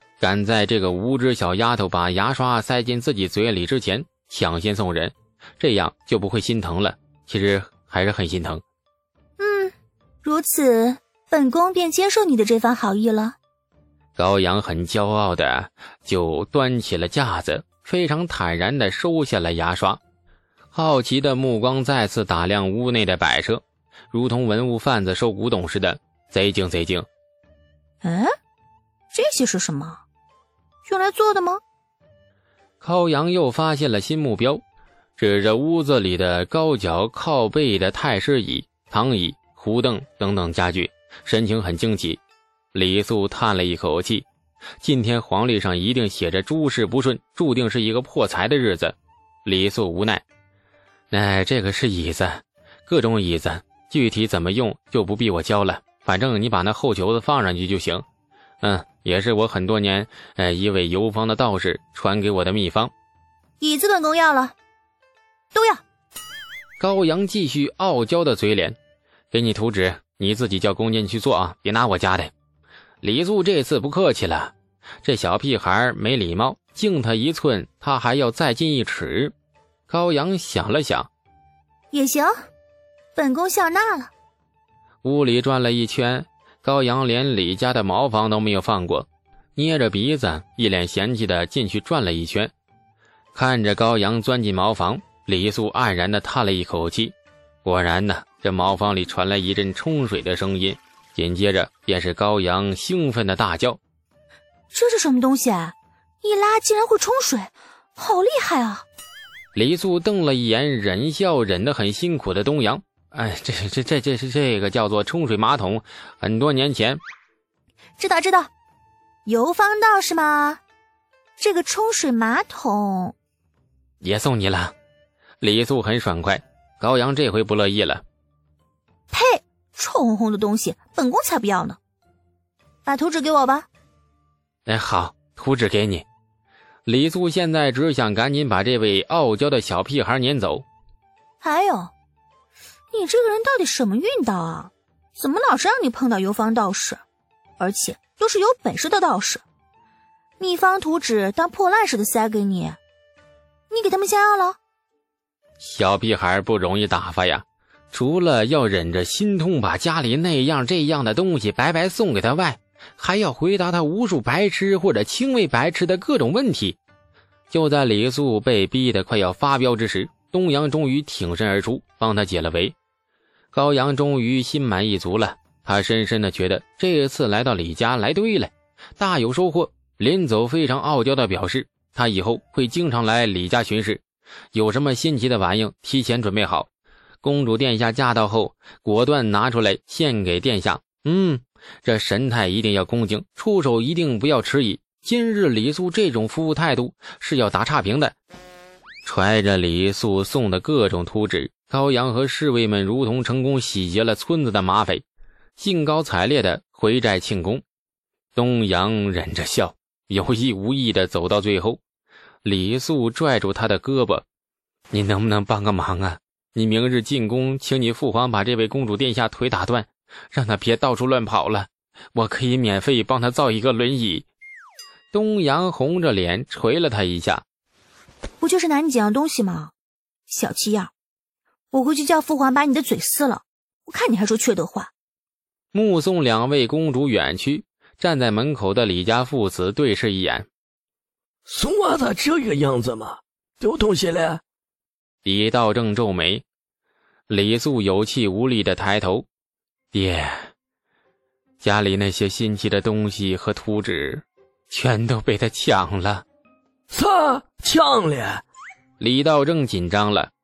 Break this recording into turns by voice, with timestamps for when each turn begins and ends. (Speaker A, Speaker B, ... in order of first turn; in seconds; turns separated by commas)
Speaker A: 0.2-8.6, Speaker B: 9.4-9.7, Speaker B: 10.2-13.4, Speaker A: 14.2-20.0, Speaker A: 20.7-27.1, Speaker B: 28.0-28.3, Speaker B: 29.1-30.0, Speaker B: 30.8-31.6, Speaker A: 32.8-34.6, Speaker A: 35.2-42.2, Speaker A: 42.7-44.2, Speaker A: 44.8-50.2, Speaker A: 51.1-58.0, Speaker A: 58.6-62.9, Speaker B: 63.6-64.5, Speaker B: 65.5-65.8, Speaker A: 66.8-68.8, Speaker A: 69.3-72.3, Speaker A: 73.0-79.3, Speaker A: 79.9-81.1, Speaker B: 81.9-82.3, Speaker B: 83.1-84.1, Speaker A: 85.0-92.5, Speaker A: 93.3-103.8, Speaker B: 104.7-108.8, Speaker A: 109.5-117.0, Speaker B: 118.0-118.5, Speaker B: 119.2-120.6, Speaker B: 121.4-123.1, Speaker A: 124.0-124.7, Speaker A: 125.4-128.0, Speaker B: 129.1-131.8, Speaker B: 132.8-133.7, Speaker A: 134.7-136.1, Speaker A: 136.8-140.7, Speaker B: 141.4-141.9, Speaker B: 142.9-147.0, Speaker B: 147.6-149.4, Speaker B: 150.4-152.8, Speaker B: 153.7-154.6, Speaker A: 155.6-166.8, Speaker A: 167.5-172.7, Speaker A: 173.5-184.0, Speaker A: 184.5-186.7, Speaker A: 187.2-198.2, Speaker A: 199.0-205.0, Speaker A: 205.6-207.6, Speaker A: 208.3-211.8, Speaker A: 212.4-214.2, Speaker A: 214.9-224.3, Speaker A: 225.1-227.4, Speaker B: 228.4-229.7, Speaker B: 230.3-230.9, Speaker B: 231.7-234.9, Speaker A: 235.7-240.5, Speaker C: 241.5-244.4, Speaker A: 245.2-246.4, Speaker A: 247.3-249.2, Speaker A: 249.9-250.5, Speaker A: 251.6-256.2, Speaker C: 256.9-258.4, Speaker A: 259.0-260.3